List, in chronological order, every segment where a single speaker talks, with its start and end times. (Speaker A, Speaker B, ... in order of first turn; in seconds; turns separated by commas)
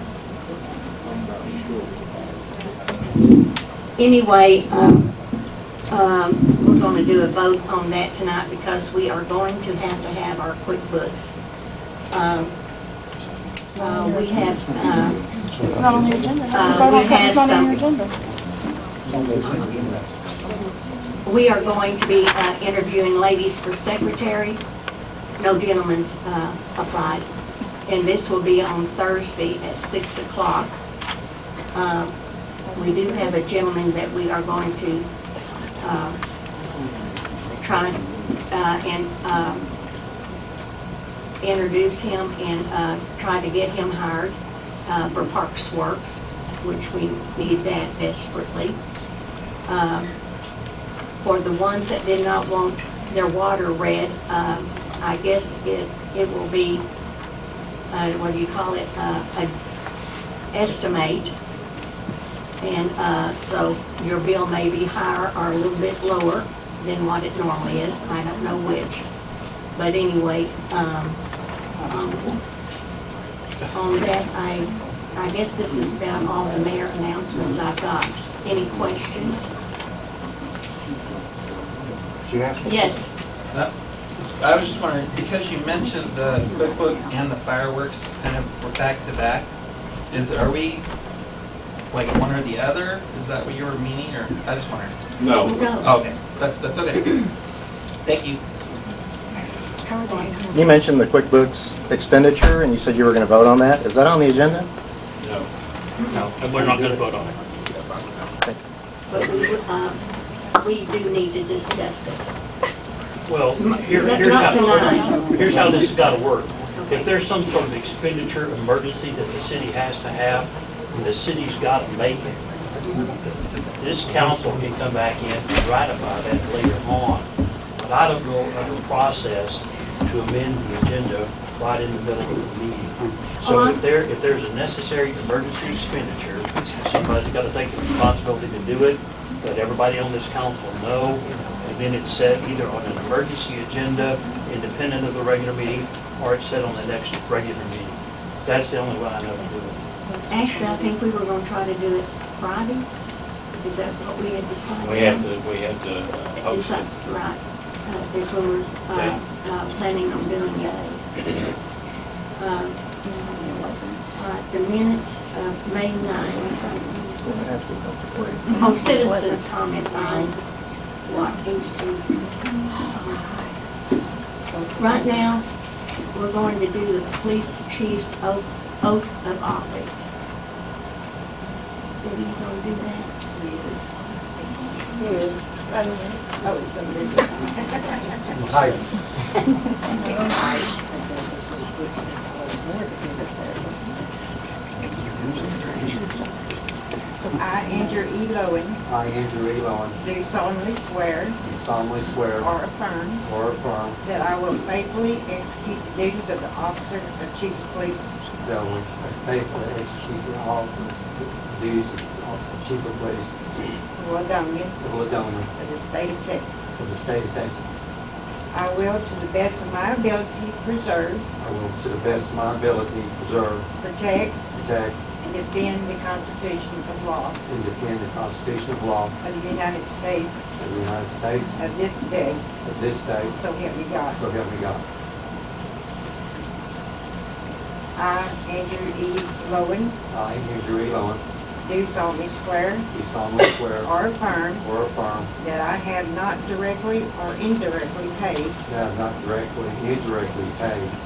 Speaker A: 1.0-2.0, Speaker B: 4.0-5.1, Speaker B: 5.9-11.4, Speaker B: 12.1-12.5, Speaker A: 13.8-14.3, Speaker B: 13.8-15.2, Speaker A: 15.6-18.1, Speaker B: 16.5-17.8, Speaker C: 19.2-20.0, Speaker B: 21.2-24.6, Speaker B: 25.4-27.2, Speaker B: 27.9-30.8, Speaker B: 31.7-32.1, Speaker B: 32.7-35.1, Speaker B: 35.8-36.2, Speaker B: 37.6-39.7, Speaker B: 41.4-48.8, Speaker B: 49.7-50.1, Speaker B: 51.2-56.9, Speaker B: 57.9-59.5, Speaker B: 60.5-61.3, Speaker B: 62.6-69.0, Speaker B: 69.7-71.2, Speaker B: 71.8-72.4, Speaker B: 73.7-79.5, Speaker D: 82.2-83.0, Speaker B: 82.6-83.1, Speaker E: 84.4-89.5, Speaker E: 90.1-90.8, Speaker E: 91.9-95.0, Speaker F: 95.2-95.7, Speaker B: 95.4-95.9, Speaker E: 95.8-97.3, Speaker E: 98.0-98.4, Speaker A: 99.8-100.6, Speaker B: 100.1-100.4, Speaker D: 100.5-104.7, Speaker F: 105.2-105.5, Speaker G: 106.1-107.4, Speaker C: 106.2-107.0, Speaker E: 107.8-108.2, Speaker B: 109.1-110.0, Speaker B: 110.5-112.3, Speaker G: 113.3-123.3, Speaker B: 113.6-115.7, Speaker A: 114.2-115.8, Speaker B: 116.8-117.1, Speaker B: 122.9-123.1, Speaker G: 123.8-127.3, Speaker G: 127.8-149.8, Speaker B: 133.4-133.8, Speaker A: 150.1-150.9, Speaker B: 150.3-152.9, Speaker B: 153.6-155.3, Speaker F: 154.8-156.9, Speaker B: 156.3-160.8, Speaker A: 160.1-161.0, Speaker B: 162.4-162.8, Speaker A: 163.1-164.0, Speaker B: 164.1-167.2, Speaker D: 167.2-169.1, Speaker B: 168.5-170.4, Speaker A: 168.5-170.3, Speaker B: 171.1-172.1, Speaker A: 171.1-171.6, Speaker A: 172.6-173.5, Speaker B: 172.9-173.3, Speaker A: 174.5-175.1, Speaker B: 174.8-175.4, Speaker B: 176.1-180.1, Speaker B: 182.0-183.1, Speaker H: 183.3-184.4, Speaker A: 185.0-186.2, Speaker H: 186.4-189.0, Speaker C: 188.3-188.9, Speaker H: 189.9-193.6, Speaker C: 194.9-195.2, Speaker H: 197.3-198.8, Speaker C: 198.8-200.0, Speaker H: 200.0-201.4, Speaker C: 201.4-202.5, Speaker H: 202.4-203.2, Speaker C: 203.2-204.0, Speaker H: 204.0-208.2, Speaker C: 208.4-213.6, Speaker H: 214.0-214.8, Speaker C: 214.8-215.5, Speaker H: 215.5-216.8, Speaker C: 216.8-217.8, Speaker H: 218.5-221.3, Speaker C: 221.4-223.7, Speaker H: 223.8-224.4, Speaker C: 224.4-225.0, Speaker H: 225.2-227.4, Speaker C: 227.5-229.2, Speaker H: 229.2-230.5, Speaker C: 230.6-231.6, Speaker H: 231.5-232.5, Speaker C: 232.6-233.4, Speaker H: 233.3-234.2, Speaker C: 234.1-234.8, Speaker H: 237.9-240.0, Speaker C: 240.1-241.2, Speaker H: 241.6-242.9, Speaker C: 242.9-244.0, Speaker H: 243.8-244.7, Speaker C: 244.6-245.3, Speaker H: 245.4-248.6, Speaker C: 248.7-250.9